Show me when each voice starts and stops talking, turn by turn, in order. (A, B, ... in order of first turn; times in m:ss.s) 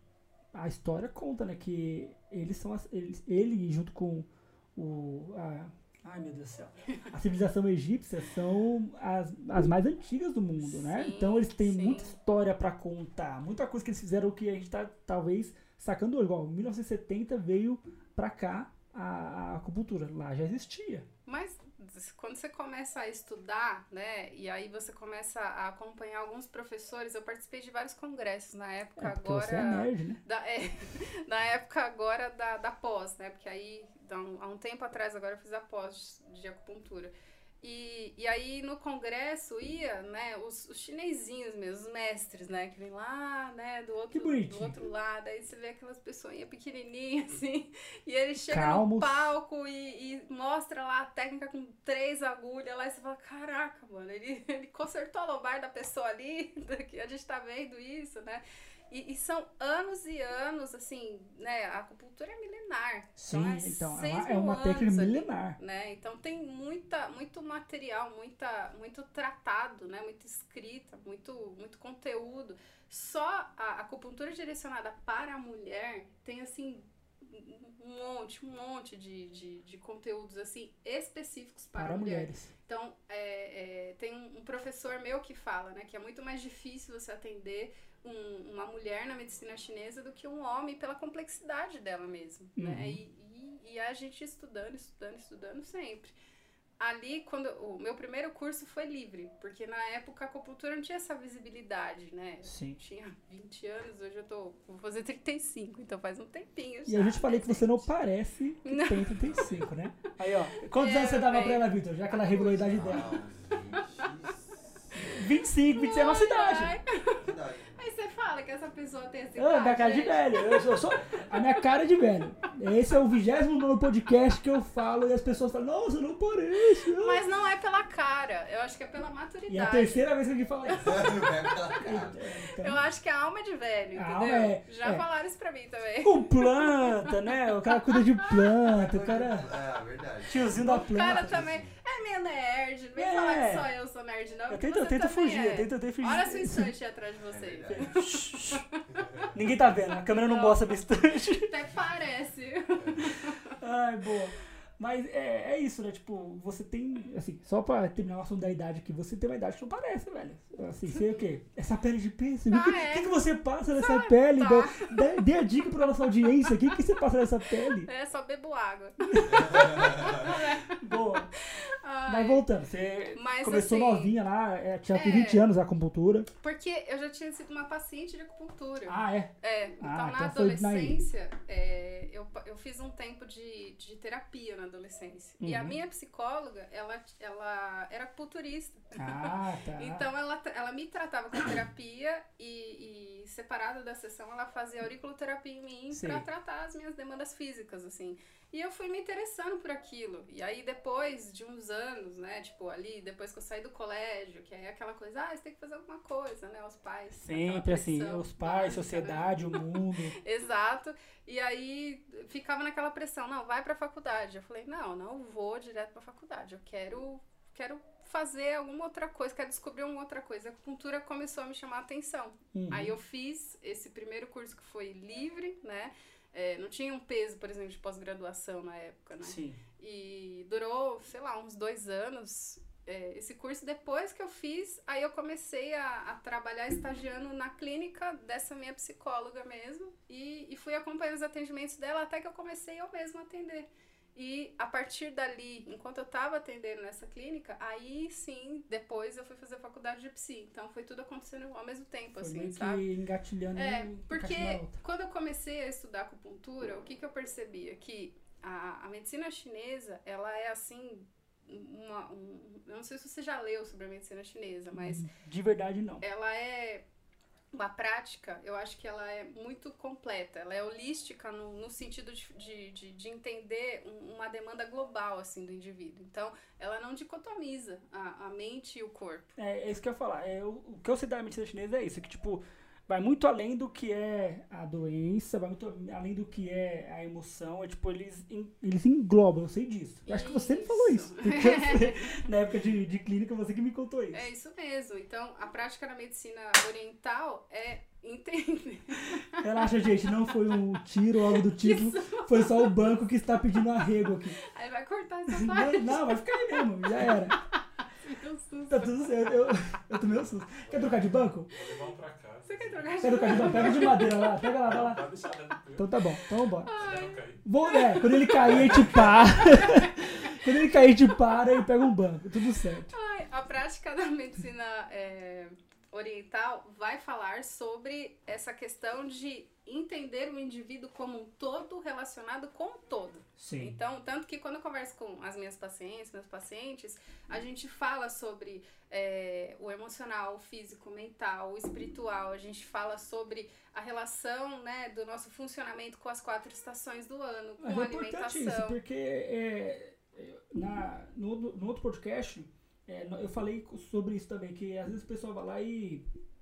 0:00.5-0:21.0 A
0:10.6-0:12.1 B
0:21.3-1:36.1 B
0:29.0-0:30.2 A
0:44.1-0:44.8 A
0:48.5-0:49.3 A
1:03.2-1:05.6 A
1:21.7-1:22.5 A
1:32.6-1:33.0 A
1:36.8-1:47.9 B
1:42.4-1:42.8 A
1:46.8-1:53.2 A
1:48.6-1:49.2 B
1:49.2-1:49.7 C
1:50.7-1:53.2 B
1:52.6-1:55.3 C
1:54.9-1:56.8 A
1:55.7-2:00.8 B
1:57.2-1:57.7 C
1:59.4-2:07.2 A
2:06.9-2:10.1 B
2:09.5-2:11.2 A
2:10.7-2:11.5 B
2:10.8-2:12.3 C
2:11.8-2:12.8 A
2:12.6-2:18.7 B
2:13.9-2:15.0 A
2:16.0-2:19.5 A
2:18.7-2:21.8 C
2:20.3-2:21.4 A
2:20.5-2:28.8 B
2:23.0-2:23.7 A
2:24.5-2:26.7 A
2:27.3-2:28.1 C
2:27.7-2:28.6 A
2:28.9-2:29.3 C
2:29.3-2:31.5 A
2:30.2-2:33.6 B
2:32.8-2:33.3 C
2:33.6-2:47.9 A
2:40.9-2:41.2 B
2:42.5-2:43.1 B
2:43.7-2:45.2 B
2:46.4-2:46.7 B
2:47.8-2:50.8 B
2:49.0-2:51.3 A
2:49.3-2:50.3 C
2:51.3-2:52.4 B
2:52.0-2:56.3 A
2:53.1-2:54.1 B
2:54.9-2:55.4 B
2:56.4-3:29.6 B
2:58.8-3:01.0 A
3:05.4-3:05.8 A
3:08.9-3:10.0 A
3:15.9-3:16.2 A
3:27.2-3:30.1 A
3:30.2-4:12.8 B
3:42.5-3:42.9 A
3:49.2-3:49.6 A
4:12.2-4:14.8 A
4:13.5-4:25.0 B
4:24.7-4:26.0 A
4:26.0-4:26.8 B
4:27.5-4:39.3 B
4:39.4-4:54.2 A
4:50.0-4:52.2 B
4:54.1-5:00.6 B
4:59.4-5:04.4 A
5:01.3-5:02.9 B
5:04.4-5:09.6 B
5:05.3-5:07.4 A
5:08.7-5:11.5 A
5:10.5-5:19.3 D
5:12.4-5:14.4 B
5:13.0-5:15.0 A
5:15.8-5:16.8 A
5:16.6-5:20.7 B
5:17.4-5:22.9 A
5:22.9-5:48.8 B
5:33.4-5:33.8 A
5:47.6-5:56.0 A